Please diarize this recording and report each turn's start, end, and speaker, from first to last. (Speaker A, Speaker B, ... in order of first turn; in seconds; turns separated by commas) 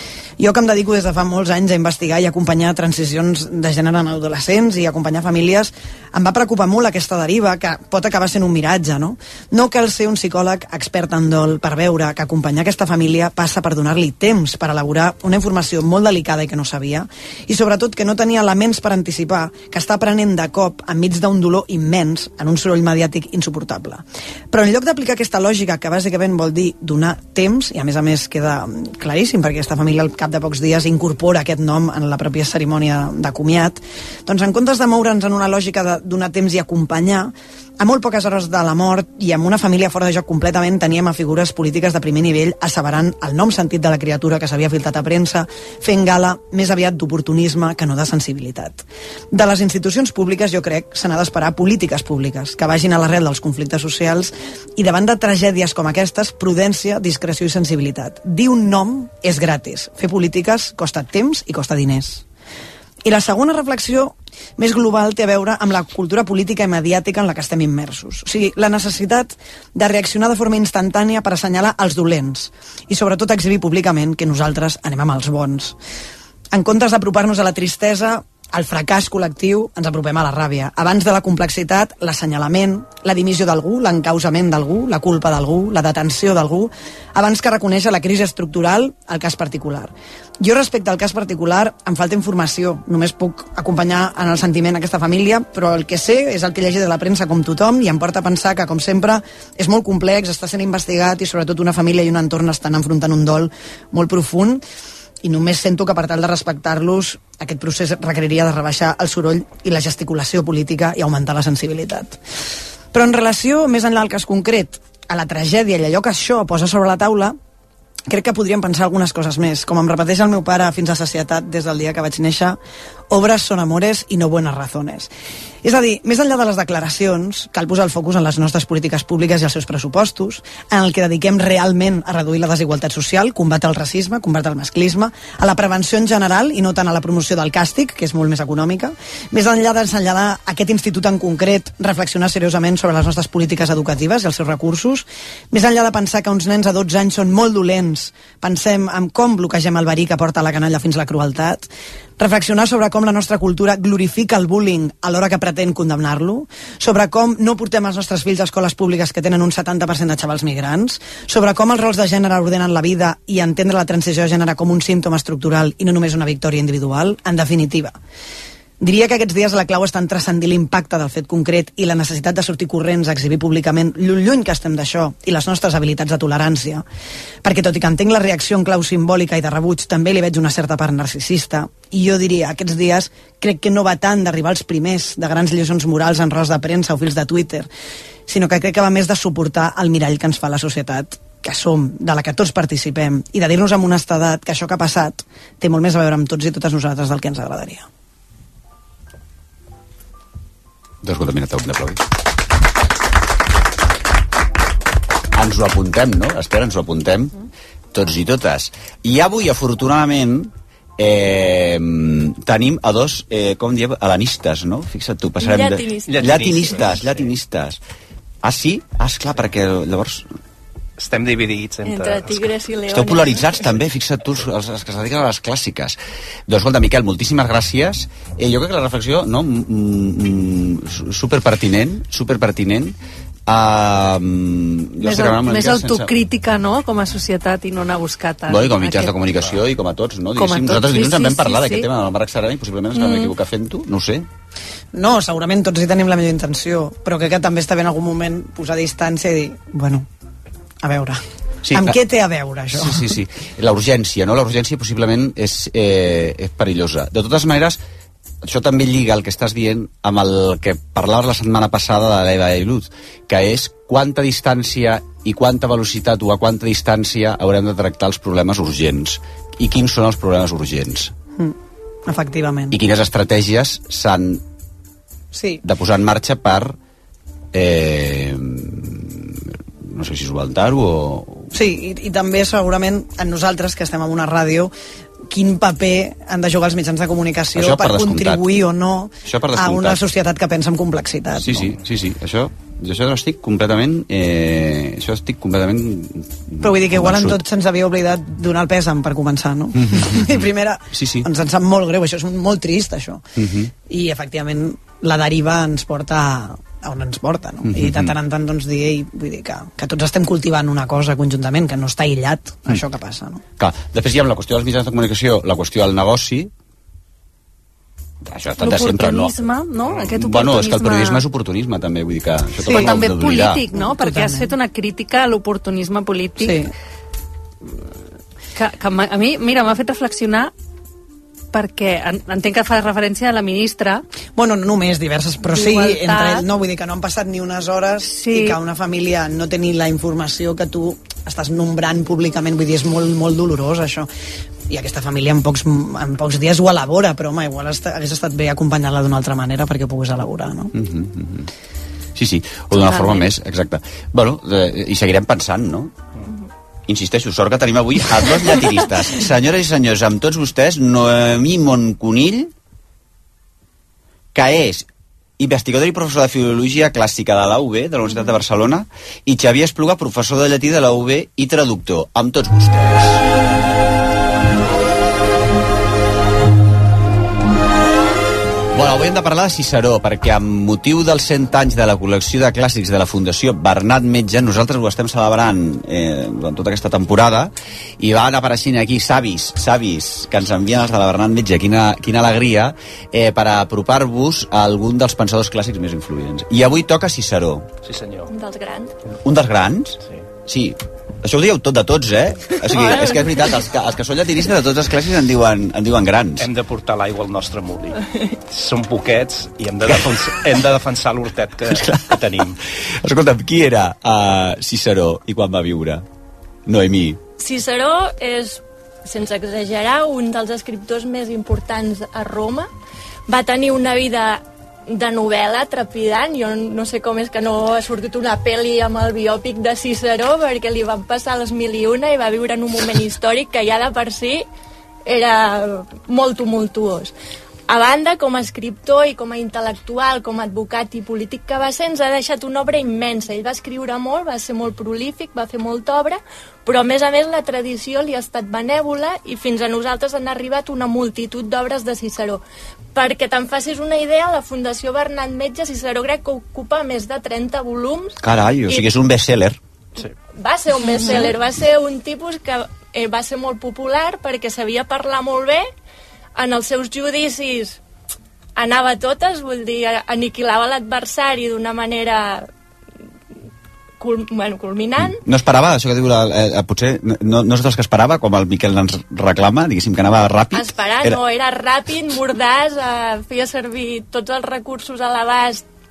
Speaker A: 0.4-62.2, Speaker A: 63.0-75.8, Speaker A: 76.5-104.6, Speaker A: 105.2-112.2, Speaker A: 112.9-117.4, Speaker A: 118.1-122.6, Speaker A: 123.1-125.1, Speaker A: 125.6-151.7, Speaker A: 152.2-168.0, Speaker A: 168.8-176.8, Speaker A: 177.4-187.7, Speaker A: 188.3-197.9, Speaker B: 201.0-202.0, Speaker B: 205.3-207.3, Speaker B: 207.9-217.8, Speaker C: 215.4-216.6, Speaker D: 216.1-217.3, Speaker B: 218.4-220.3, Speaker D: 221.0-222.5, Speaker C: 221.8-223.6, Speaker B: 222.9-226.0, Speaker B: 226.5-233.0, Speaker B: 233.5-236.1, Speaker E: 235.0-239.2, Speaker B: 238.5-244.3, Speaker E: 240.4-241.9, Speaker A: 244.9-250.1, Speaker A: 250.8-251.2, Speaker B: 251.6-252.0, Speaker A: 251.7-253.1, Speaker B: 252.7-257.8, Speaker B: 258.4-271.1, Speaker A: 272.1-272.8, Speaker B: 272.7-274.4, Speaker A: 275.3-275.6, Speaker B: 275.6-276.8, Speaker B: 277.5-281.5, Speaker A: 281.5-284.7, Speaker A: 285.3-291.8, Speaker B: 287.6-288.4, Speaker B: 289.3-290.0, Speaker B: 291.4-297.4, Speaker A: 296.6-303.2, Speaker B: 299.8-301.3, Speaker B: 303.4-303.7, Speaker A: 303.9-313.4, Speaker B: 307.6-308.1, Speaker B: 313.6-316.5, Speaker B: 318.2-319.4, Speaker E: 318.6-321.2, Speaker B: 319.9-323.7, Speaker A: 322.6-323.0, Speaker E: 322.7-326.6, Speaker A: 323.7-324.5, Speaker A: 326.4-326.7, Speaker E: 328.6-330.5, Speaker E: 331.5-334.0, Speaker A: 334.4-344.1, Speaker E: 335.4-336.5, Speaker E: 338.1-338.6, Speaker A: 344.7-350.7, Speaker B: 350.7-351.5, Speaker B: 352.2-355.9, Speaker B: 356.9-362.5, Speaker B: 364.3-364.9, Speaker B: 365.4-373.2, Speaker B: 378.7-397.7, Speaker D: 397.9-398.3, Speaker C: 398.3-398.9, Speaker B: 399.2-406.5, Speaker C: 402.7-403.4, Speaker D: 406.4-412.6, Speaker B: 409.9-410.1, Speaker B: 411.7-412.4, Speaker B: 413.0-416.0, Speaker B: 416.7-417.2, Speaker C: 417.4-422.7, Speaker C: 423.3-434.5, Speaker C: 435.1-437.1, Speaker C: 437.7-452.4, Speaker C: 452.9-458.2, Speaker B: 458.2-459.6, Speaker C: 460.4-465.7, Speaker C: 466.4-467.8, Speaker C: 468.6-472.5, Speaker C: 474.0-475.2, Speaker B: 475.1-481.2, Speaker C: 480.5-485.6